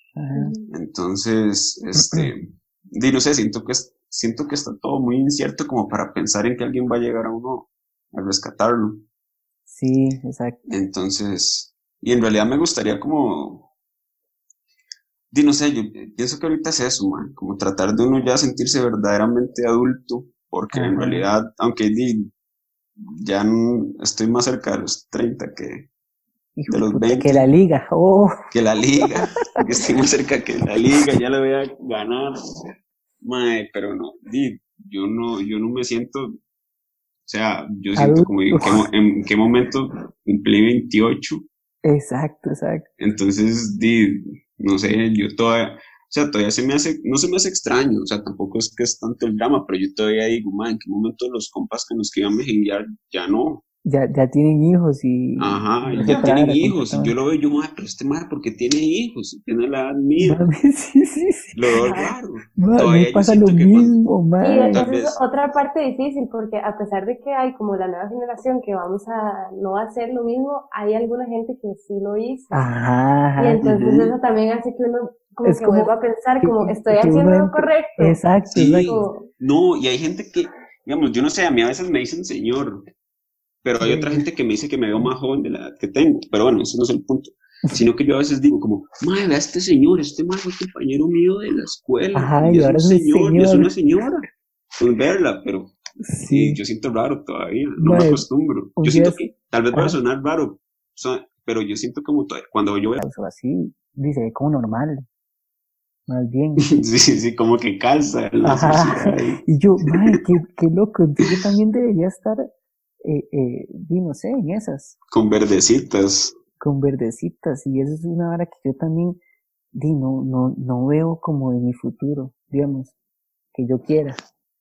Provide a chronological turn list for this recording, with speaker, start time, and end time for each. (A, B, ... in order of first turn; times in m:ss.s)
0:00.2-0:00.5 A
0:00.3-0:00.7 B
0:00.7-0:09.0 C
0:02.0-0:02.3 A
0:09.7-0:10.6 A
0:10.7-0:13.7 C
0:15.3-0:22.3 C
0:20.7-0:21.2 A
0:23.0-0:25.9 C
0:26.6-0:28.3 A
0:26.7-0:27.4 C
0:28.5-0:32.6 C
0:33.2-0:36.4 C
0:37.3-0:41.4 C
0:38.0-0:38.9 A
0:41.8-0:42.9 A
0:43.0-0:53.6 C
0:53.8-0:57.1 A
0:55.4-1:00.4 C
0:56.0-0:56.3 B
1:00.2-1:01.8 A
1:01.5-1:04.0 C
1:01.8-1:02.1 B
1:02.6-1:04.8 A
1:04.4-1:12.6 B
1:04.7-1:05.2 C
1:12.5-1:13.6 A
1:13.4-1:18.2 B
1:13.6-1:14.1 C
1:15.4-1:18.9 A
1:18.5-1:22.8 C
1:18.8-1:19.3 B
1:23.6-1:34.3 C
1:23.8-1:24.2 A
1:32.1-1:33.7 A
1:34.8-1:35.7 C
1:36.1-1:36.6 A
1:36.2-1:43.0 C
1:37.8-1:38.2 A
1:38.8-1:39.2 A
1:43.0-1:45.0 A
1:46.1-1:46.7 A
1:46.7-1:50.1 C
1:48.4-1:52.5 A
1:53.0-1:55.0 A
1:55.1-1:56.4 C
1:56.6-1:59.2 A
1:59.7-2:02.9 A
2:03.5-2:04.2 A